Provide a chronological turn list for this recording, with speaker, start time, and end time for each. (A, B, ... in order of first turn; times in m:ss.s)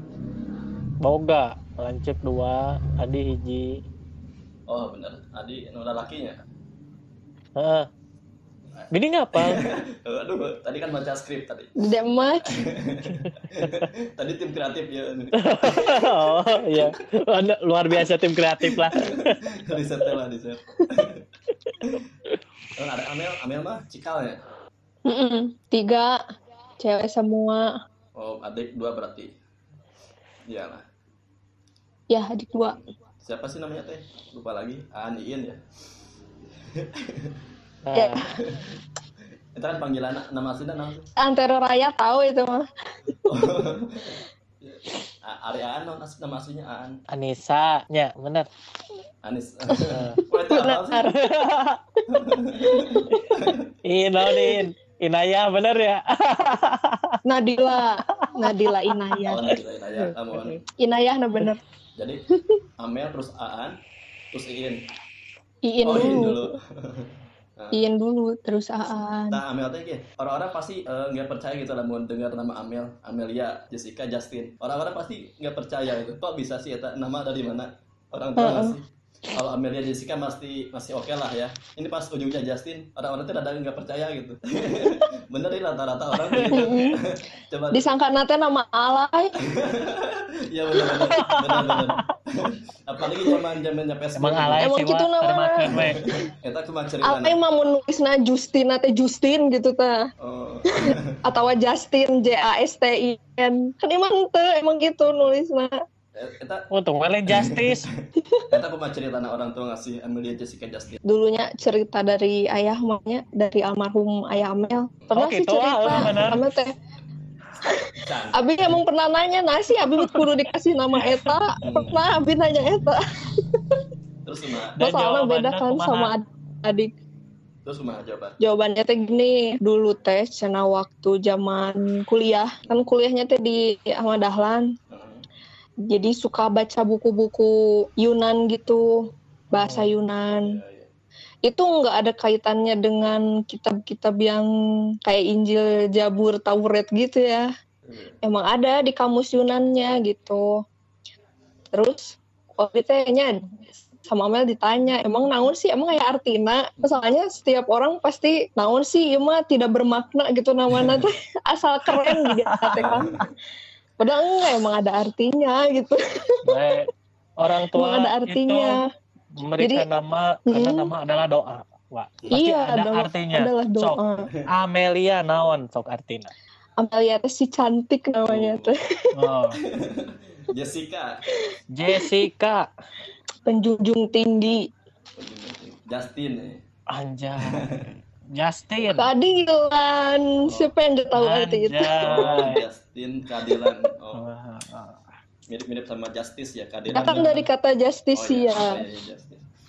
0:01.0-0:03.8 A
0:04.7-0:06.4 B
0:07.6-0:07.9 A
0:08.9-0:09.6 A
0:09.4-0:11.7 B
0:11.8-0:12.5 C
0:12.6-0:16.0 B
0:15.4-0:19.4 A
0:19.0-0:21.2 B
0:22.8-0:24.4 B
0:25.1-0:26.2 C
0:26.8-0:27.7 C
0:28.2-0:29.3 B
0:30.5-0:30.8 B
0:32.1-0:32.8 C
0:32.7-0:35.6 B
0:36.8-0:37.3 B
0:37.8-0:38.2 A
0:37.9-0:38.3 C
0:38.3-0:38.6 B
0:39.6-0:41.1 B
0:41.2-0:42.6 C
0:43.3-0:47.0 B
0:47.1-0:48.5 A
0:49.2-0:51.1 B
0:49.9-0:50.2 A
0:50.5-0:51.2 C
0:51.1-0:51.8 A
0:52.1-0:53.6 B
0:52.6-0:53.2 C
0:53.8-0:57.2 A
0:57.3-0:59.4 C
0:58.1-0:59.2 A
0:59.3-1:00.6 B
1:00.1-1:00.6 A
1:00.8-1:01.6 C
1:02.8-1:03.8 B
1:04.3-1:04.8 B
1:05.6-1:06.4 C
1:05.9-1:07.0 B
1:07.6-1:07.9 B
1:07.7-1:09.4 C
1:09.3-1:18.8 B
1:18.4-1:18.8 C
1:19.4-1:27.9 B
1:26.3-1:26.7 A
1:26.5-1:26.9 C
1:27.7-1:29.3 C
1:29.5-1:34.6 B
1:31.2-1:32.0 A
1:34.2-1:36.0 A
1:34.6-1:35.7 C
1:36.4-1:37.4 B
1:37.0-1:40.0 C
1:40.2-1:41.0 B
1:40.7-1:45.7 C
1:46.2-1:46.6 B
1:46.7-1:47.8 A
1:47.3-1:47.8 B
1:48.5-1:51.0 B
1:51.1-1:56.7 C
1:55.1-1:56.4 A
1:57.7-2:03.0 C
1:58.0-1:58.8 B
1:59.8-2:00.3 A
2:01.0-2:01.3 A
2:01.6-2:02.0 B
2:04.2-2:04.7 B
2:04.8-2:06.1 A
2:04.8-2:06.9 C
2:07.7-2:08.4 B
2:08.4-2:14.7 C
2:14.9-2:15.2 B
2:15.9-2:18.9 C
2:19.5-2:20.6 C
2:19.6-2:20.0 A
2:20.3-2:20.9 B
2:21.4-2:24.4 C
2:25.0-2:27.5 C
2:27.9-2:28.2 B
2:28.2-2:30.5 C
2:31.7-2:33.3 C
2:34.0-2:43.1 C
2:40.7-2:41.0 B
2:41.9-2:43.2 A
2:42.8-2:43.2 B
2:44.0-2:46.0 C
2:46.5-2:48.8 A
2:47.7-2:48.8 C
2:49.4-2:56.3 A
2:49.6-2:49.9 C
2:50.5-2:50.9 C
2:52.3-2:54.3 C
2:56.8-2:58.8 C
2:58.3-2:58.8 B
2:59.1-2:59.6 A
2:59.7-3:01.2 B
3:01.7-3:02.7 A
3:03.5-3:04.6 C
3:05.2-3:06.6 B
3:06.9-3:07.7 A
3:08.4-3:09.1 A
3:08.9-3:12.3 C
3:11.1-3:12.6 A
3:12.0-3:14.2 B
3:14.2-3:15.0 A
3:15.5-3:17.3 B
3:16.9-3:17.5 A
3:16.9-3:18.8 C
3:18.2-3:19.4 B